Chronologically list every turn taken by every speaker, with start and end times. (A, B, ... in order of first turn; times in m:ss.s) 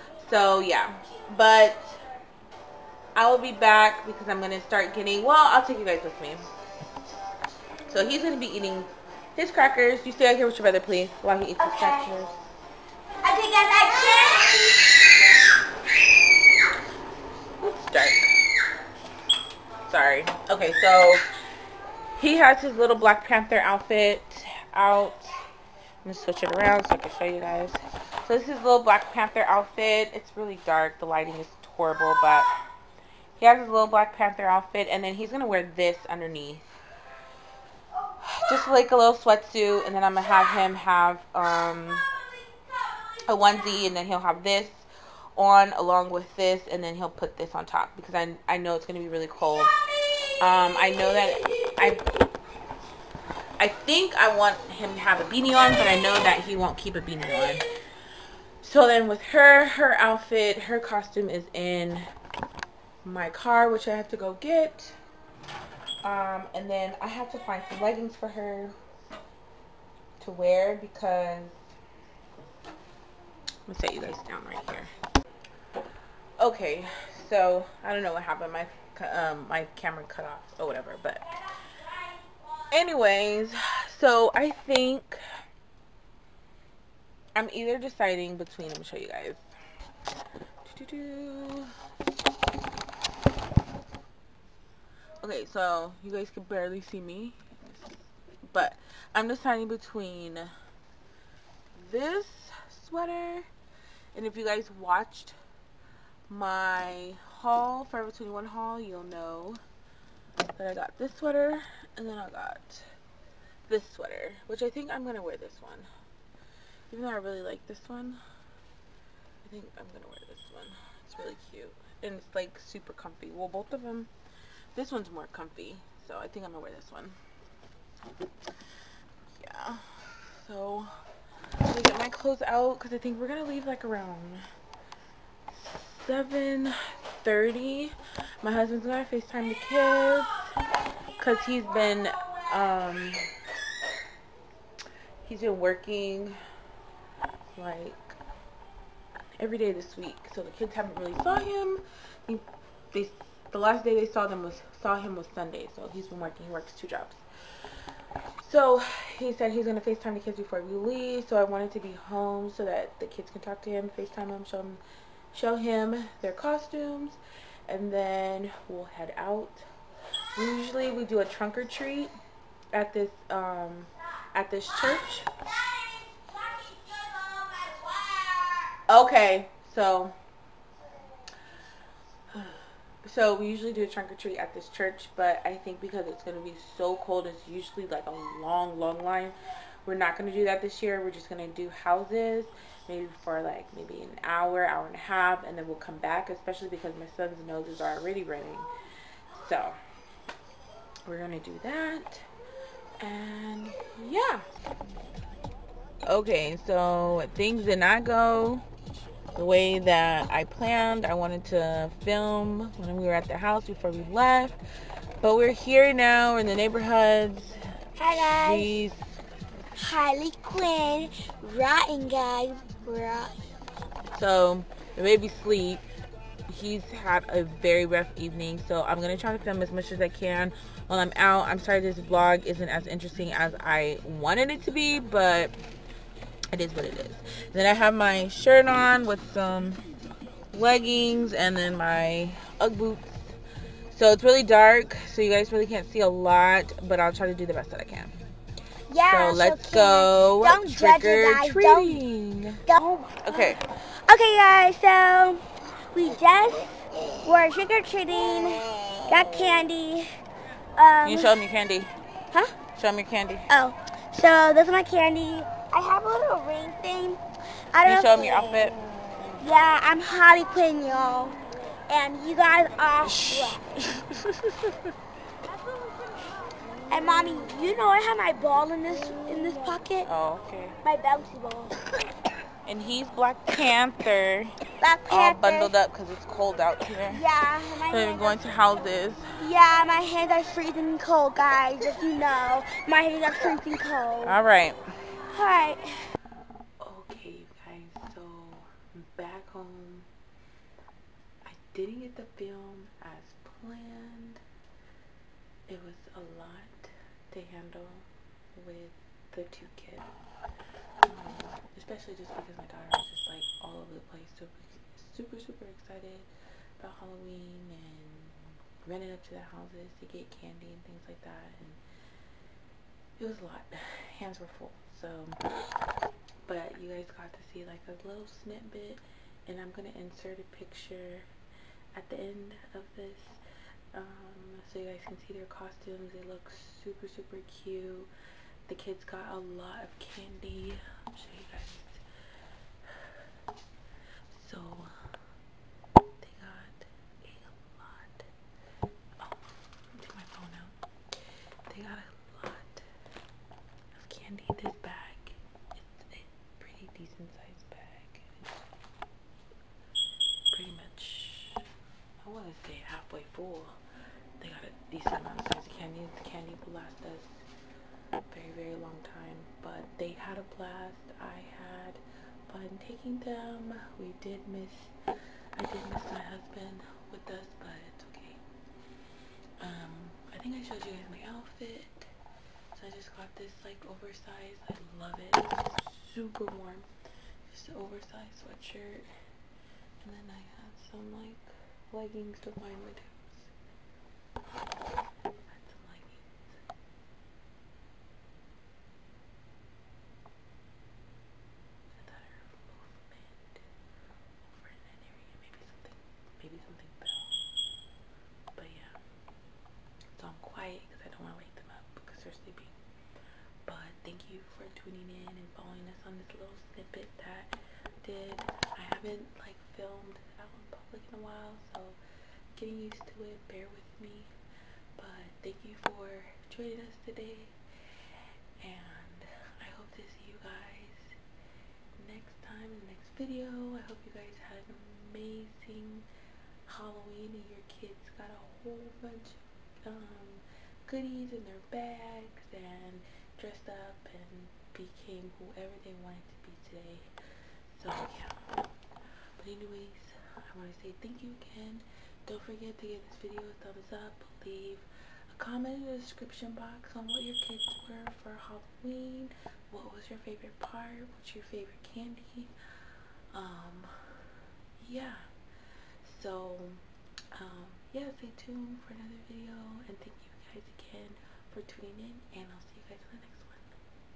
0:00.2-0:02.0 A
0:03.2-0:06.5 A
0:07.9-0:12.4 A
0:11.6-0:12.1 B
0:13.2-0:15.0 B
0:17.6-0:18.4 A
0:19.9-0:21.2 A
0:22.2-0:25.4 A
0:26.0-0:32.5 A
0:33.4-0:36.6 A
0:38.2-0:42.1 A
0:43.3-0:49.7 A
0:50.4-0:52.0 A
0:53.6-0:57.6 A
0:58.6-1:02.1 A
1:03.0-1:05.0 A
1:06.0-1:08.7 A
1:10.2-1:11.6 A
1:13.7-1:14.9 A
1:16.4-1:21.3 A
1:22.7-1:25.2 A
1:27.4-1:29.4 A
1:30.6-1:31.7 A
1:35.2-1:40.5 A
1:41.8-1:43.5 A
1:44.1-1:45.4 A
1:46.3-1:49.6 A
1:50.6-1:52.9 A
1:53.7-1:55.9 A
1:56.9-1:58.2 A
1:59.4-2:04.1 A
2:04.8-2:07.2 A
2:09.4-2:10.9 A
2:11.7-2:14.4 A
2:15.5-2:20.5 A
2:21.2-2:23.2 A
2:25.2-2:26.4 A
2:27.6-2:28.2 A
2:29.4-2:37.2 A
2:38.4-2:44.8 A
2:45.3-2:49.7 A
2:50.4-2:52.1 A
2:52.7-2:55.3 A
2:55.7-2:58.8 B
2:58.9-3:00.2 A
3:02.3-3:18.7 A
3:19.3-3:19.8 A
3:21.0-3:22.3 A
3:23.0-3:24.4 A
3:26.0-3:28.6 A
3:29.4-3:34.6 A
3:35.2-3:37.6 A
3:38.0-3:38.7 B
3:38.3-3:39.2 A
3:39.8-3:43.3 B
3:44.2-3:45.8 A
3:46.5-3:55.6 A
3:56.5-3:59.8 A
4:00.5-4:03.4 A
4:03.9-4:08.2 A
4:08.9-4:12.0 B
4:09.1-4:12.6 A
4:12.7-4:20.1 B
4:13.2-4:13.6 A
4:20.8-4:21.3 B
4:21.0-4:21.9 A
4:22.7-4:23.5 A
4:23.5-4:27.2 B
4:27.7-4:28.8 B
4:27.9-4:28.8 A
4:29.4-4:33.8 B
4:33.2-4:34.6 A
4:36.9-4:40.1 B
4:40.1-4:40.8 A
4:40.8-4:41.8 B
4:42.6-4:44.6 A
4:44.8-4:45.7 B
4:45.1-4:47.2 A
4:47.1-4:48.5 B
4:47.9-4:49.3 A
4:49.4-4:54.4 B
4:54.2-4:54.8 A
4:55.3-4:56.0 B
4:56.8-5:00.1 A
5:01.4-5:04.4 A
5:05.7-5:10.1 A
5:11.0-5:21.8 A
5:23.2-5:25.4 A
5:26.4-5:31.3 A
5:32.0-5:33.4 A
5:33.9-5:38.1 A
5:38.7-5:42.0 A
5:44.3-5:45.0 A
5:46.2-5:48.3 A
5:49.2-5:50.8 A
5:51.7-5:52.8 A
5:54.0-5:58.6 A
6:00.5-6:01.6 A
6:02.2-6:03.8 A
6:04.4-6:07.5 A
6:08.3-6:14.9 A
6:15.6-6:18.4 A
6:19.6-6:22.1 A
6:22.7-6:26.9 A
6:27.5-6:29.1 A
6:30.0-6:33.5 A
6:35.5-6:36.6 A
6:41.9-6:43.7 A
6:44.4-6:47.2 A
6:48.6-6:49.0 A
6:50.2-6:52.8 A
6:53.7-7:02.0 A
7:02.6-7:04.3 A
7:05.0-7:07.6 A
7:08.6-7:11.2 A
7:12.0-7:16.1 A
7:16.7-7:27.1 A
7:27.7-7:28.4 A
7:29.4-7:42.5 A
7:43.3-7:45.2 A
7:46.0-7:46.8 A
7:47.4-7:53.7 A